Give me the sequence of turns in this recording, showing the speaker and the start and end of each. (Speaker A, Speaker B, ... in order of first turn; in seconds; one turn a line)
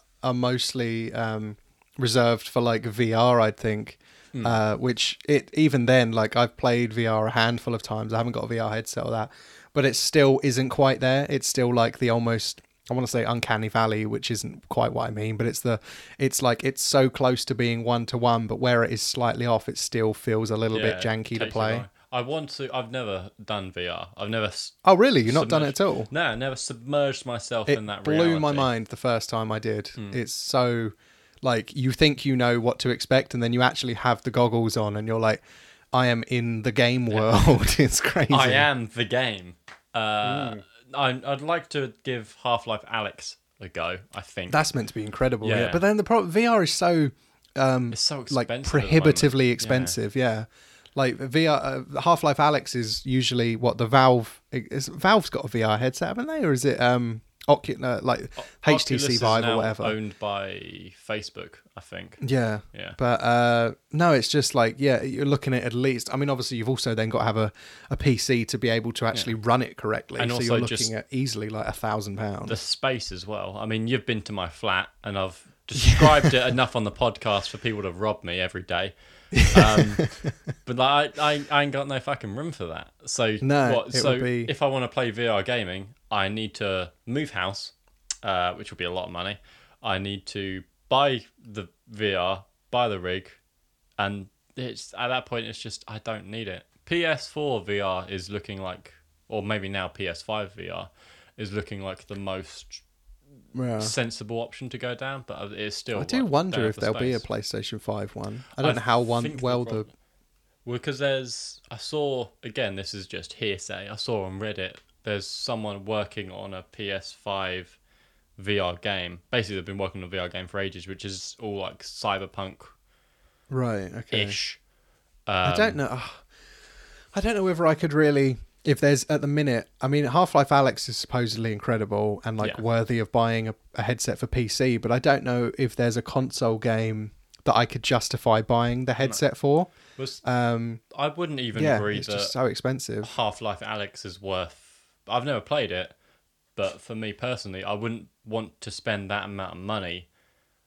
Speaker A: 0.2-21.9
Speaker B: 4.3-4.6
Speaker B: 20.7-28.7
Speaker A: 24.8-26.1
Speaker A: 27.7-35.4
Speaker A: 35.9-38.7
Speaker B: 37.1-37.6
Speaker B: 38.3-44.6
Speaker A: 40.2-40.6
Speaker A: 44.5-59.9
Speaker B: 45.4-45.8
Speaker B: 47.9-50.0
Speaker B: 58.4-63.0
Speaker A: 62.2-72.5
Speaker B: 70.2-70.9
Speaker B: 72.5-93.4
Speaker A: 75.8-76.3
Speaker A: 83.4-84.5
Speaker B: 94.0-102.8
Speaker A: 103.5-103.9
Speaker B: 103.8-107.2
Speaker A: 105.9-109.8
Speaker B: 108.6-109.9
Speaker B: 110.6-117.8
Speaker B: 118.4-122.7
Speaker A: 123.5-124.4
Speaker B: 124.1-124.6
Speaker B: 125.2-125.8
Speaker A: 125.4-126.2
Speaker A: 127.1-140.8
Speaker B: 139.0-139.2
Speaker B: 139.9-140.2
Speaker B: 140.9-142.3
Speaker A: 141.5-143.1
Speaker B: 143.0-145.9
Speaker B: 146.6-150.1